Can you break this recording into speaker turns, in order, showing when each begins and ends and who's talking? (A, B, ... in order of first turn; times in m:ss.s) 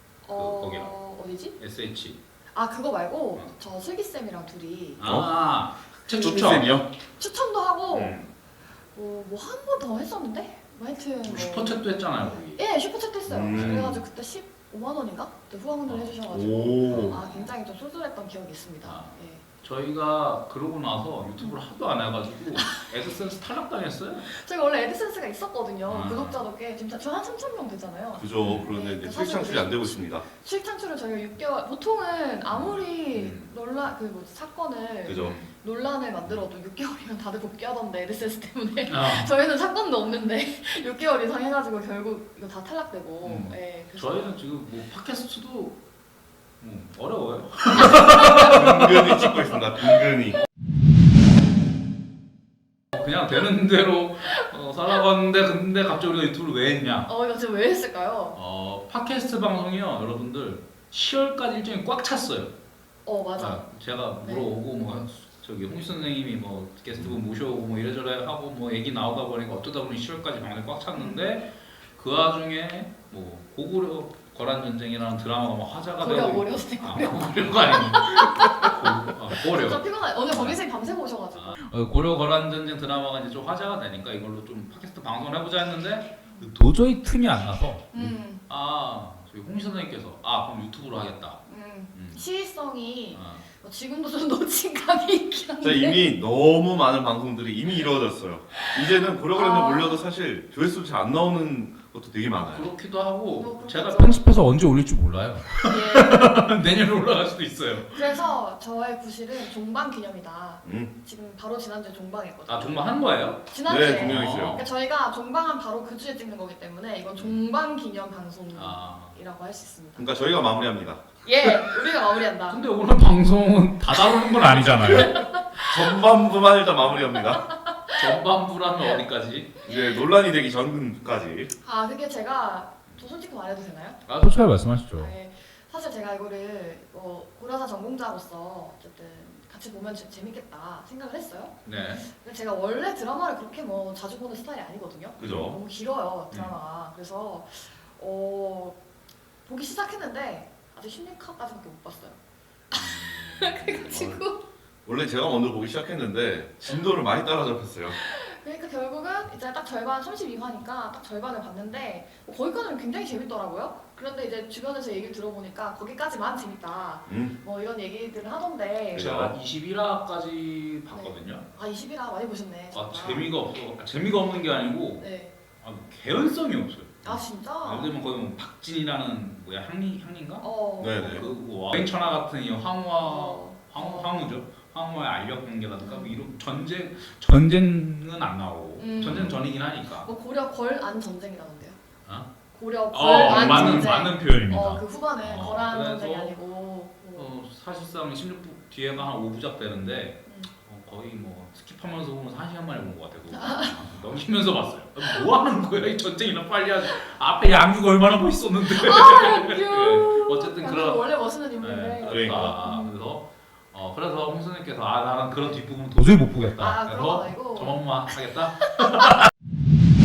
0:00.2-0:01.6 A
0:00.3-0:00.9 B
0:01.6-0:02.2 B
0:02.5-0:05.0 A
0:05.0-0:06.7 B
0:05.0-0:05.3 C
0:06.2-0:06.9 C
0:07.1-0:08.2 A
0:07.9-0:08.2 B
0:08.9-0:19.4 A
0:11.2-0:12.6 B
0:13.3-0:14.0 C
0:13.5-0:14.0 B
0:15.8-0:16.2 B
0:16.3-0:17.2 C
0:16.9-0:17.5 B
0:18.8-0:24.3 B
0:24.3-0:44.4 A
0:25.9-0:26.4 B
0:28.1-0:30.2 C
0:28.4-0:28.7 B
0:32.5-0:33.5 B
0:35.0-0:35.4 C
0:35.1-0:35.5 B
0:38.9-0:39.3 B
0:43.2-0:45.8 B
0:46.6-0:49.3 B
0:48.1-0:50.4 C
0:52.9-0:57.1 B
0:57.0-0:58.4 A
0:58.3-1:02.5 B
1:03.0-1:03.7 A
1:03.4-1:20.6 B
1:04.2-1:04.5 A
1:10.9-1:11.2 A
1:16.0-1:18.8 A
1:19.4-1:21.6 A
1:21.3-1:32.2 B
1:26.3-1:26.5 A
1:27.9-1:28.4 A
1:31.4-1:36.0 A
1:33.1-1:33.4 B
1:35.6-1:42.7 C
1:39.3-1:40.0 A
1:42.5-1:48.2 B
1:43.3-1:44.2 A
1:45.6-1:46.4 A
1:47.9-2:00.1 A
1:50.6-1:50.9 C
1:52.5-1:54.7 B
1:53.6-1:54.6 C
1:58.5-1:59.2 B
2:00.0-2:01.0 C
2:01.2-2:02.6 A
2:02.5-2:05.2 B
2:04.0-2:05.7 A
2:04.8-2:05.1 C
2:05.6-2:07.4 C
2:07.1-2:08.0 A
2:07.9-2:09.6 B
2:09.6-2:10.0 A
2:09.6-2:11.5 C
2:11.6-2:28.8 A
2:14.0-2:15.1 B
2:21.6-2:22.0 B
2:25.2-2:25.6 C
2:29.4-2:32.2 A
2:32.7-2:34.4 A
2:32.7-2:33.8 B
2:33.7-2:34.2 C
2:34.8-2:38.0 C
2:37.9-2:49.1 A
2:47.1-2:47.3 C
2:48.9-2:49.3 C
2:48.9-2:51.4 B
2:50.9-2:53.3 A
2:52.7-2:55.1 B
2:55.0-2:55.3 A
2:55.6-3:10.1 B
2:57.0-2:57.9 A
3:00.4-3:01.2 A
3:00.8-3:01.2 C
3:02.9-3:04.2 A
3:05.8-3:06.2 A
3:08.8-3:09.4 A
3:09.0-3:09.3 C
3:10.0-3:11.8 A
3:12.5-3:17.3 A
3:12.9-3:16.4 B
3:13.4-3:13.9 C
3:17.1-3:39.1 B
3:23.3-3:23.7 A
3:28.6-3:32.9 A
3:32.1-3:32.5 C
3:36.6-3:38.0 A